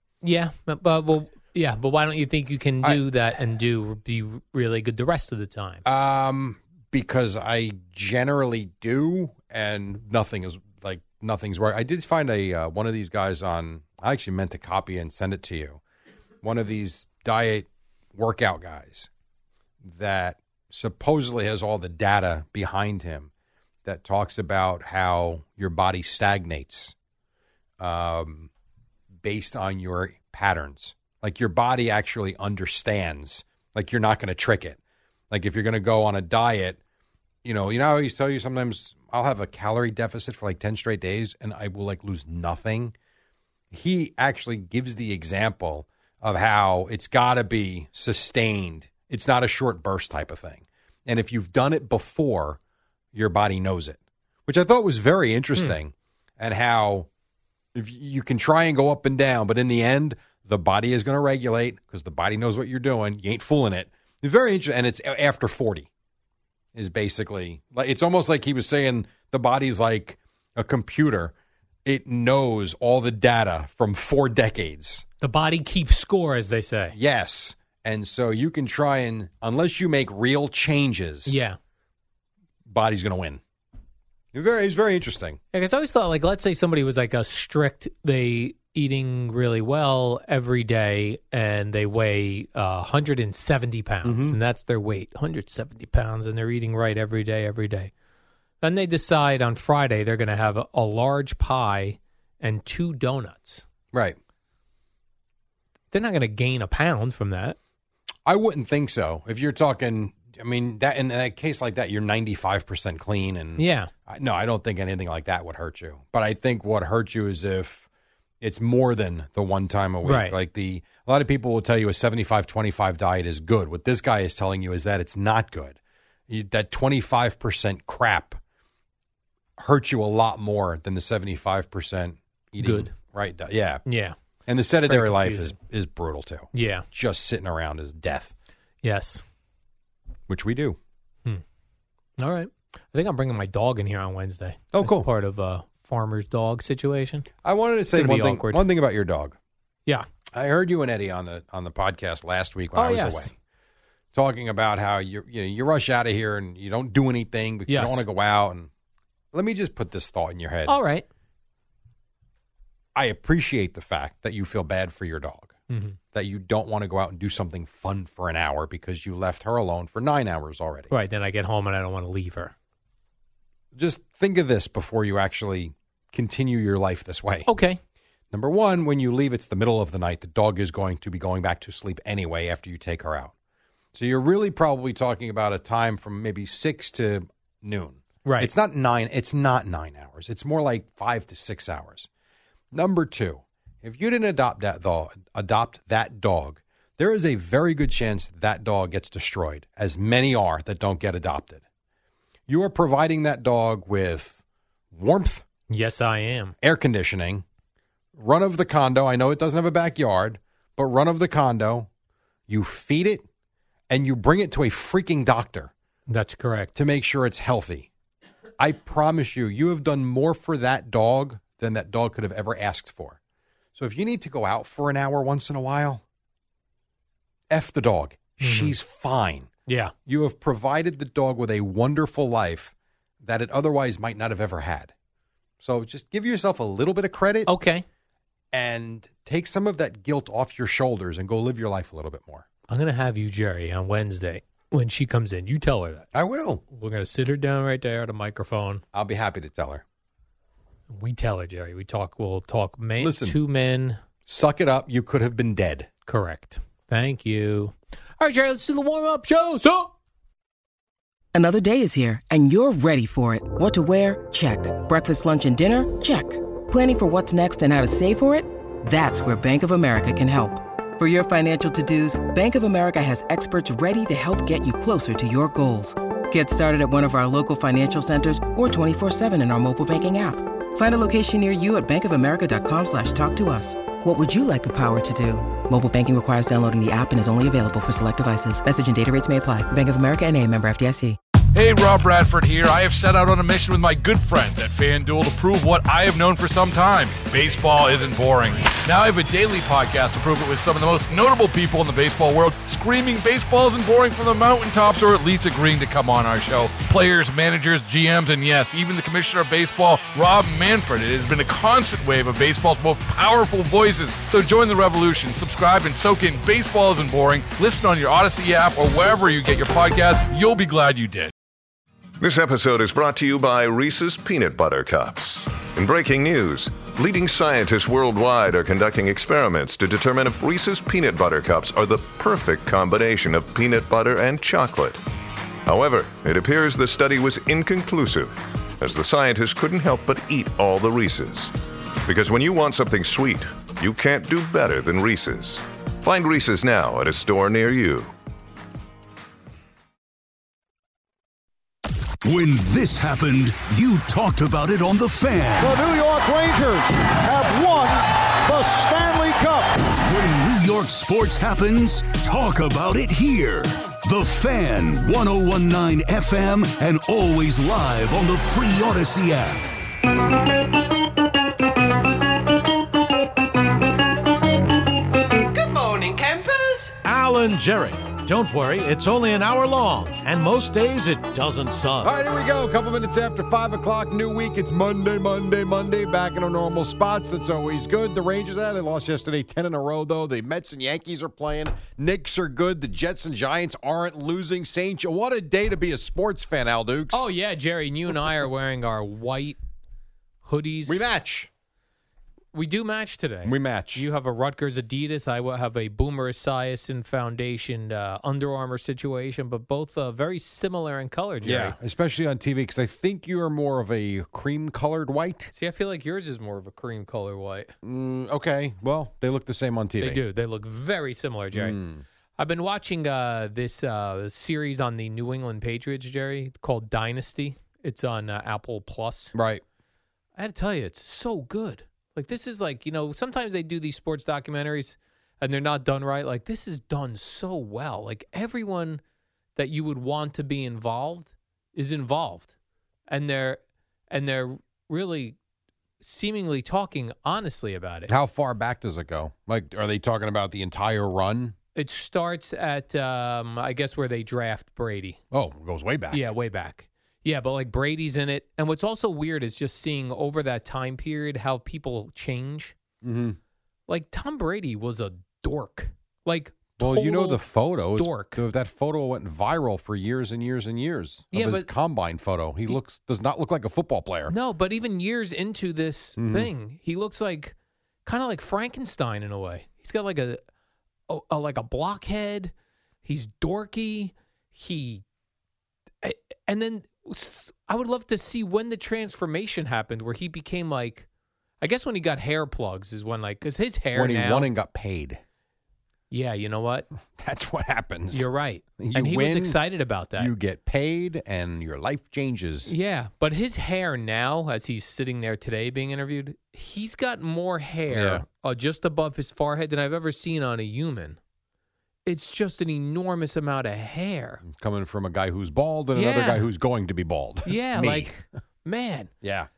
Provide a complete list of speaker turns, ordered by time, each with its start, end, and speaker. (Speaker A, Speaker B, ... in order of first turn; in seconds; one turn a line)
Speaker A: 0.2-5.8
Speaker B: 5.8-15.8
Speaker B: 16.4-19.1
Speaker B: 19.8-23.3
Speaker B: 23.8-26.9
Speaker B: 27.8-28.5
Speaker B: 29.2-34.8
Speaker B: 35.3-36.8
Speaker B: 37.4-42.9
Speaker B: 43.7-52.6
Speaker B: 53.1-57.1
Speaker B: 57.7-65.9
Speaker B: 66.7-71.3
Speaker B: 71.8-75.0
Speaker A: 75.2-76.9
Speaker B: 76.9-81.3
Speaker A: 81.3-81.6
Speaker B: 82.7-83.4
Speaker B: 84.3-85.4
Speaker A: 85.5-97.9
Speaker B: 94.0-94.3
Speaker A: 98.6-103.6
Speaker B: 103.9-104.2
Speaker A: 105.9-107.6
Speaker B: 108.2-117.8
Speaker A: 113.6-113.9
Speaker B: 118.4-125.8
Speaker A: 120.0-120.3
Speaker B: 126.3-128.4
Speaker B: 129.6-133.8
Speaker A: 132.6-132.9
Speaker A: 133.9-134.2
Speaker B: 134.5-138.3
Speaker A: 134.8-135.6
Speaker A: 136.5-136.8
Speaker A: 138.8-139.2
Speaker B: 140.3-140.8
Speaker A: 142.2-147.3
Speaker B: 144.7-145.1
Speaker B: 147.4-149.4
Speaker A: 147.9-148.7
Speaker B: 150.3-153.3
Speaker A: 152.7-153.3
Speaker B: 154.1-158.7
Speaker A: 157.7-158.0
Speaker B: 159.3-160.8
Speaker A: 160.7-161.1
Speaker B: 162.9-165.5
Speaker A: 165.7-166.0
Speaker B: 166.1-170.9
Speaker A: 170.9-172.5
Speaker B: 173.7-177.5
Speaker A: 177.5-177.8
Speaker B: 178.3-183.3
Speaker B: 183.9-192.1
Speaker A: 188.2-188.5
Speaker B: 192.7-201.6
Speaker B: 202.5-205.4
Speaker A: 205.7-206.5
Speaker B: 206.6-207.4
Speaker B: 208.1-211.9
Speaker B: 212.5-213.3
Speaker B: 213.9-215.7
Speaker A: 216.1-216.7
Speaker B: 216.8-217.9
Speaker B: 218.6-223.2
Speaker B: 223.8-226.0
Speaker B: 227.5-229.5
Speaker A: 228.4-228.8
Speaker A: 229.7-229.9
Speaker B: 230.1-234.9
Speaker B: 235.6-237.5
Speaker A: 237.5-237.8
Speaker B: 238.5-242.4
Speaker A: 242.7-246.1
Speaker B: 246.1-246.6
Speaker A: 246.7-248.8
Speaker B: 248.9-249.8
Speaker A: 250.9-254.0
Speaker B: 253.0-253.4
Speaker B: 254.2-255.9
Speaker A: 256.1-259.9
Speaker C: 261.3-291.2
Speaker D: 291.5-321.3
Speaker E: 322.2-335.0
Speaker E: 335.6-341.5
Speaker E: 342.0-348.1
Speaker F: 352.2-355.8
Speaker B: 355.6-356.8
Speaker G: 355.9-356.7
Speaker G: 357.2-357.9
Speaker G: 358.5-359.5
Speaker F: 359.8-369.6
Speaker G: 375.7-376.3
Speaker B: 375.9-376.4
Speaker H: 377.0-382.1
Speaker B: 382.0-397.3
Speaker A: 397.1-399.6
Speaker A: 400.4-401.0
Speaker B: 400.9-401.5
Speaker A: 402.5-411.8
Speaker B: 403.4-404.0
Speaker B: 411.4-415.5
Speaker A: 415.5-417.7
Speaker B: 417.8-420.2
Speaker A: 420.0-421.8
Speaker B: 421.5-422.0
Speaker A: 422.4-429.3
Speaker B: 429.3-429.6
Speaker A: 430.4-439.0
Speaker A: 439.6-442.5
Speaker A: 443.1-443.6
Speaker A: 444.1-445.4
Speaker A: 446.0-448.1
Speaker B: 448.1-451.6
Speaker A: 451.7-455.2
Speaker B: 455.3-456.2
Speaker A: 456.1-462.8
Speaker B: 463.0-463.4
Speaker A: 463.9-467.4
Speaker B: 466.8-474.3
Speaker A: 467.9-468.4
Speaker A: 471.3-471.7
Speaker A: 474.3-480.4
Speaker B: 476.2-476.5
Speaker A: 481.1-482.5
Speaker A: 483.0-485.0
Speaker A: 486.0-491.1
Speaker A: 491.6-494.5
Speaker B: 493.9-495.2
Speaker A: 496.1-496.9
Speaker B: 497.1-498.3
Speaker A: 498.1-500.3
Speaker B: 498.8-499.6
Speaker B: 500.2-502.7
Speaker A: 502.6-511.2
Speaker B: 507.9-508.2
Speaker A: 512.0-514.4
Speaker B: 514.4-518.1
Speaker A: 515.9-516.5
Speaker A: 517.5-519.1
Speaker B: 519.2-519.5